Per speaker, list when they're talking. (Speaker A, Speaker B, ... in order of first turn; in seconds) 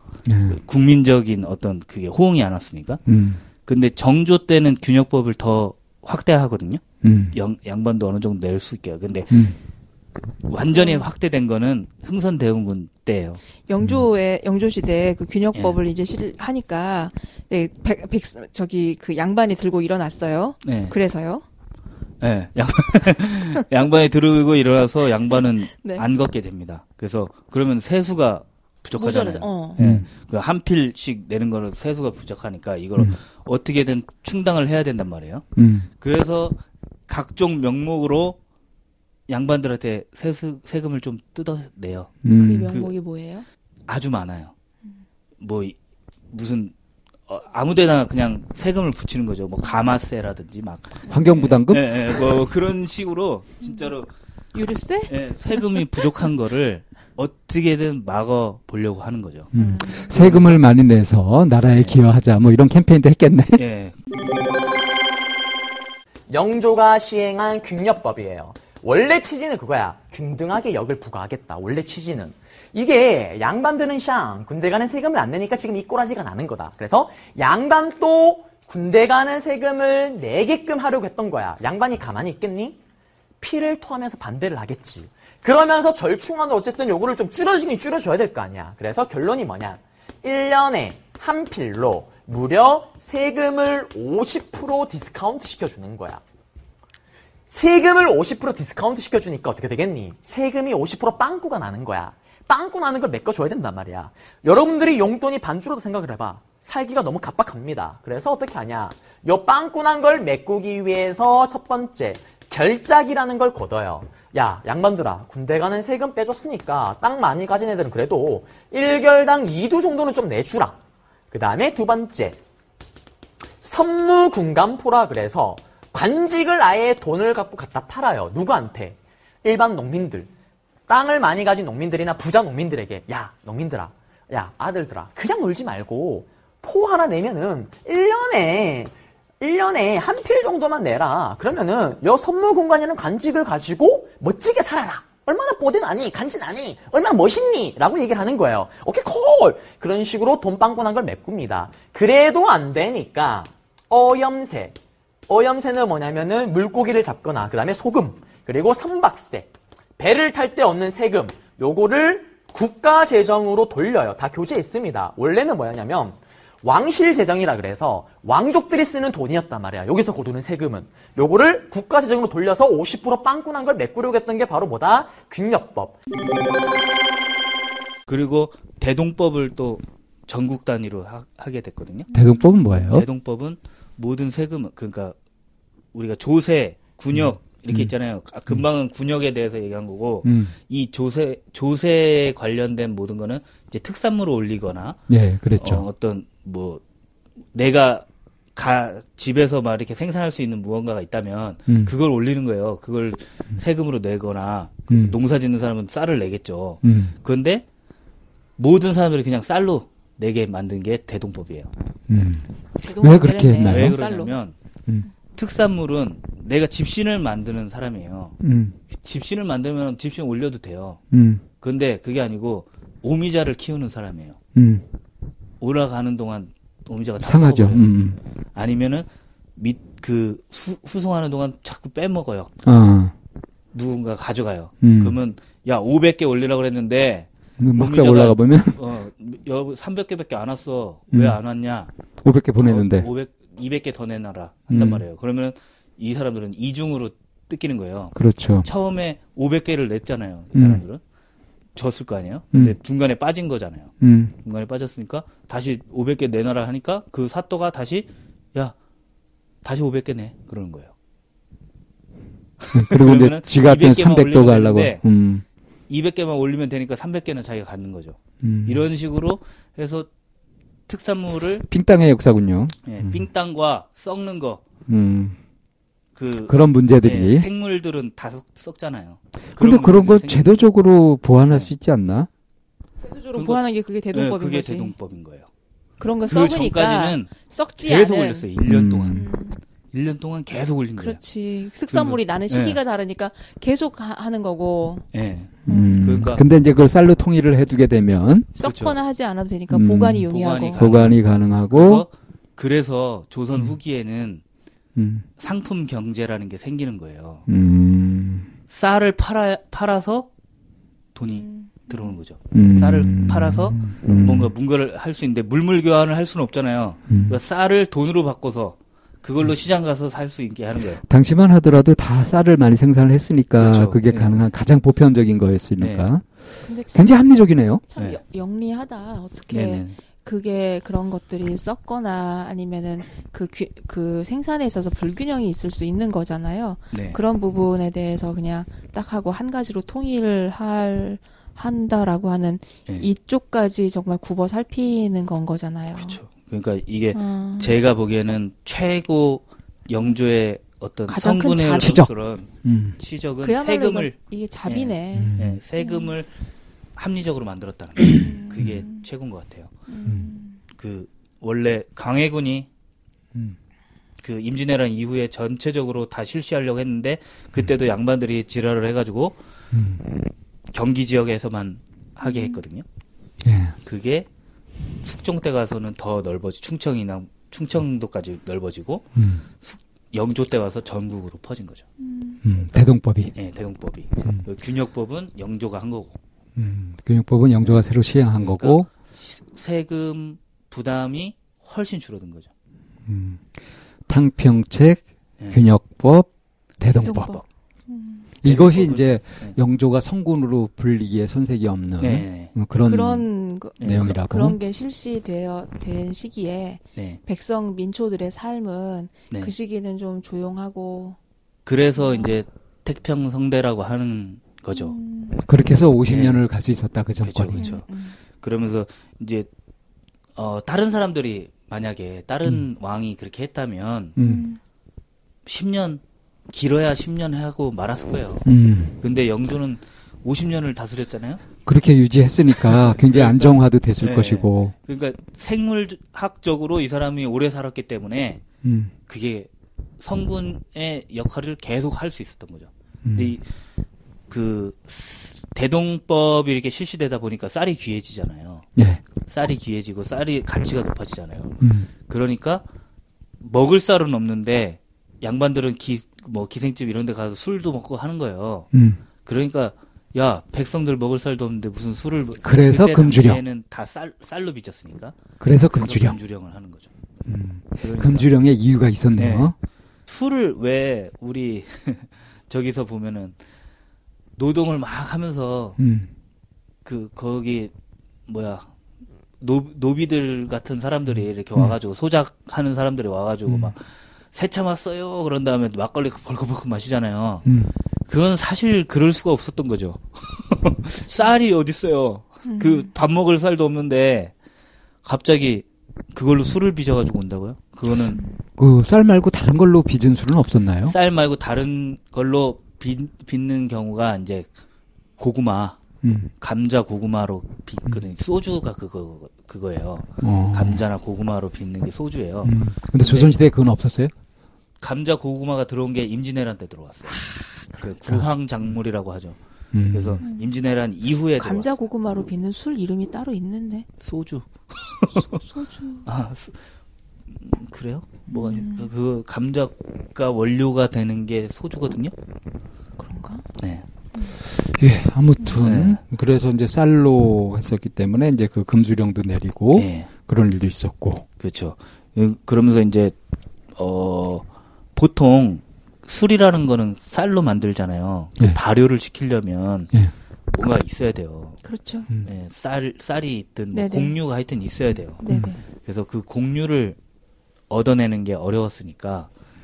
Speaker A: 0.2-0.6, 3.0-3.4, 7.0-7.4, 9.3-9.6, 29.8-30.1, 35.5-35.9, 42.2-42.7, 51.1-52.3, 59.5-63.6, 182.1-183.1, 187.1-187.9, 190.2-190.6, 195.1-195.8, 201.7-201.9, 204.9-205.2, 206.8-207.2, 212.1-214.0, 218.4-218.8, 221.1-221.4, 224.5-224.9, 227.2-228.2, 232.7-233.1, 234.8-235.2, 237.6-238.8, 241.1-241.4, 242.2-243.1, 244.7-245.0, 248.2-248.7, 250.5-250.8, 254.0-254.3, 262.7-265.4, 268.4-268.9, 271.7-273.3, 274.9-275.4, 276.4-277.5, 279.6-282.3, 288.6-289.2, 295.7-298.5, 299.7-302.0, 305.0-305.3, 307.5-308.5, 312.5-314.5, 317.1-317.4, 321.0-326.2, 326.9-327.8, 351.8-352.1, 352.6-353.0, 355.1-355.6, 360.0-360.3, 369.7-370.0, 373.4-373.8, 379.2-379.4, 382.4-383.3, 386.6-388.9, 393.1-393.5, 394.1-397.4, 398.4-403.3, 403.8-404.6, 415.4-417.7, 424.2-424.4, 428.5-429.0, 431.7-434.7, 438.6-438.9, 443.0-443.4, 448.8-449.0, 451.6-451.9, 458.7-459.0, 462.4-463.4, 465.4-466.2, 467.2-469.5, 475.8-476.1, 483.5-483.7, 487.4-487.7, 498.6-500.9, 506.0-506.3, 510.2-510.8, 512.4-514.1, 519.7-520.2, 534.6-541.2
Speaker B: 0.5-3.0, 3.6-6.8, 7.3-9.5, 10.5-13.4, 20.6-21.0, 22.2-35.5, 36.0-38.4, 39.3-42.2, 43.9-44.5, 45.4-45.8, 46.3-46.7, 47.3-54.1, 55.1-59.5, 60.1-60.6, 61.7-62.0, 63.5-64.0, 178.1-182.1, 182.8-185.2, 185.9-195.0, 195.6-196.8, 197.5-207.7, 208.6-211.7, 213.7-214.5, 215.3-218.3, 218.9-221.0, 221.6-224.4, 225.6-227.9, 228.5-232.7, 233.7-241.9, 242.6-251.0, 251.8-253.9, 254.4-258.8, 259.6-260.9, 262.6-265.0, 265.9-270.1, 270.9-271.7, 272.8-274.6, 276.1-280.6, 283.3-285.5, 286.2-289.3, 289.9-291.2, 291.9-292.8, 295.1-296.4, 298.6-299.0, 300.3-304.4, 305.4-307.5, 308.7-310.3, 311.1-321.0, 323.6-324.5, 325.8-326.1, 329.5-330.0, 336.9-337.2, 345.9-354.1, 354.7-356.3, 357.0-359.7, 360.7-362.7, 364.2-369.4, 370.7-372.8, 373.9-374.3, 375.0-381.9, 383.3-386.2, 388.4-392.5, 395.4-395.6, 396.9-397.4, 398.4-399.6, 402.0-402.5, 403.8-404.2, 411.7-414.9, 416.1-416.4, 417.2-417.8, 418.4-419.5, 420.4-424.2, 425.5-428.5, 429.0-431.4, 432.5-438.4, 439.1-443.4, 444.3-448.7, 449.3-452.6, 453.4-458.7, 459.2-466.9, 467.8-468.3, 469.2-469.5, 470.1-473.4, 474.4-475.8, 476.8-477.7, 478.3-478.7, 479.4-487.5, 488.1-494.3, 495.0-498.2, 500.9-504.5, 505.2-505.8, 506.4-513.4, 514.8-517.2, 517.8-519.4, 519.9-521.8, 524.0-525.4, 526.0-526.6, 527.4-532.1, 535.6-536.0, 539.7-540.1, 541.4-543.1, 543.8-549.9, 550.5-551.6, 552.2-555.2, 555.8-557.0, 557.7-559.3
Speaker C: 10.7-11.0, 13.7-21.4, 25.7-26.0, 28.9-29.8, 42.3-43.5, 54.5-56.1, 59.6-60.1, 212.8-214.3, 283.0-284.9, 286.0-288.5, 289.1-289.6, 291.0-295.0, 295.7-296.2, 298.6-300.8, 311.4-312.2, 326.7-327.1, 327.9-346.2, 347.1-347.7, 351.1-352.0, 353.4-356.1, 358.1-359.0, 359.9-360.6, 372.2-372.6, 382.0-382.4, 396.9-398.3, 402.8-411.2, 412.0-412.3, 414.7-415.4, 417.6-418.1, 424.2-424.6, 492.5-492.9, 517.1-517.6, 520.2-520.5, 521.4-523.9, 525.2-526.0, 528.3-528.9, 533.0-533.5, 551.6-552.1, 553.7-554.1, 555.2-555.6
Speaker D: 66.3-82.8, 83.4-96.2, 97.5-120.8, 121.3-122.4, 123.6-130.3, 130.9-154.8, 155.3-175.9